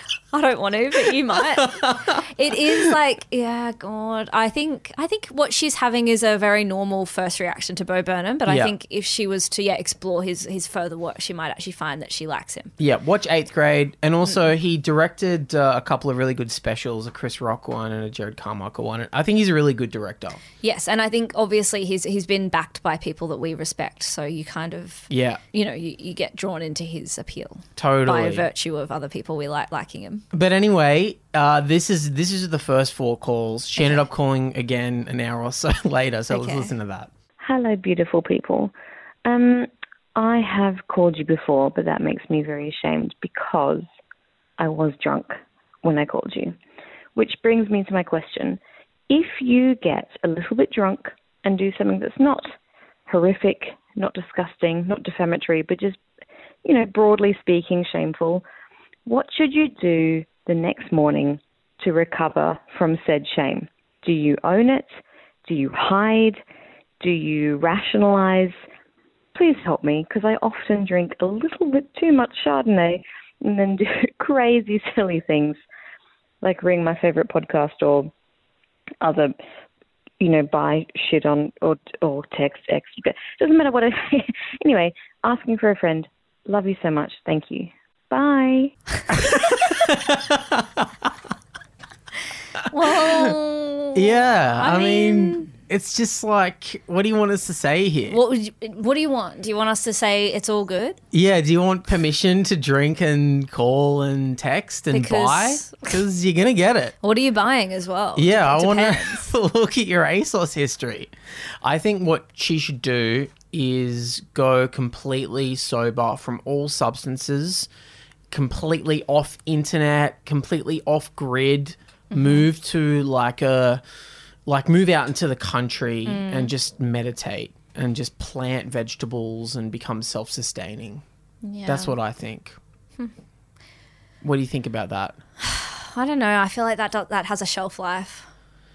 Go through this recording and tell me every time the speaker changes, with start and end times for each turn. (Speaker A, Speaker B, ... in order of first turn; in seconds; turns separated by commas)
Speaker A: 0.3-12.7, Speaker B: 1.3-3.0, Speaker B: 8.5-8.7, Speaker B: 12.8-20.4, Speaker A: 20.6-30.2, Speaker B: 25.1-25.4, Speaker B: 27.8-28.5, Speaker B: 30.3-37.1, Speaker A: 33.8-34.0, Speaker A: 36.3-36.7, Speaker C: 37.4-38.7, Speaker C: 39.2-43.9, Speaker C: 44.6-46.5, Speaker C: 47.1-52.5, Speaker C: 53.1-56.0, Speaker C: 56.6-58.5, Speaker C: 59.1-64.9, Speaker C: 65.5-66.4, Speaker C: 67.0-68.6, Speaker C: 69.3-75.6, Speaker C: 76.4-78.1, Speaker C: 79.0-79.3, Speaker C: 80.2-88.8, Speaker B: 89.1-91.1, Speaker B: 92.6-93.3, Speaker A: 92.7-95.5, Speaker B: 94.0-98.2, Speaker A: 98.1-101.0, Speaker B: 101.1-106.9, Speaker A: 104.9-106.0, Speaker A: 107.0-109.3, Speaker B: 108.2-117.7, Speaker B: 118.3-123.8, Speaker A: 122.1-122.5, Speaker B: 124.5-131.0, Speaker A: 126.1-126.5, Speaker A: 131.4-132.0, Speaker B: 131.7-132.6, Speaker B: 134.2-135.2, Speaker A: 135.4-138.3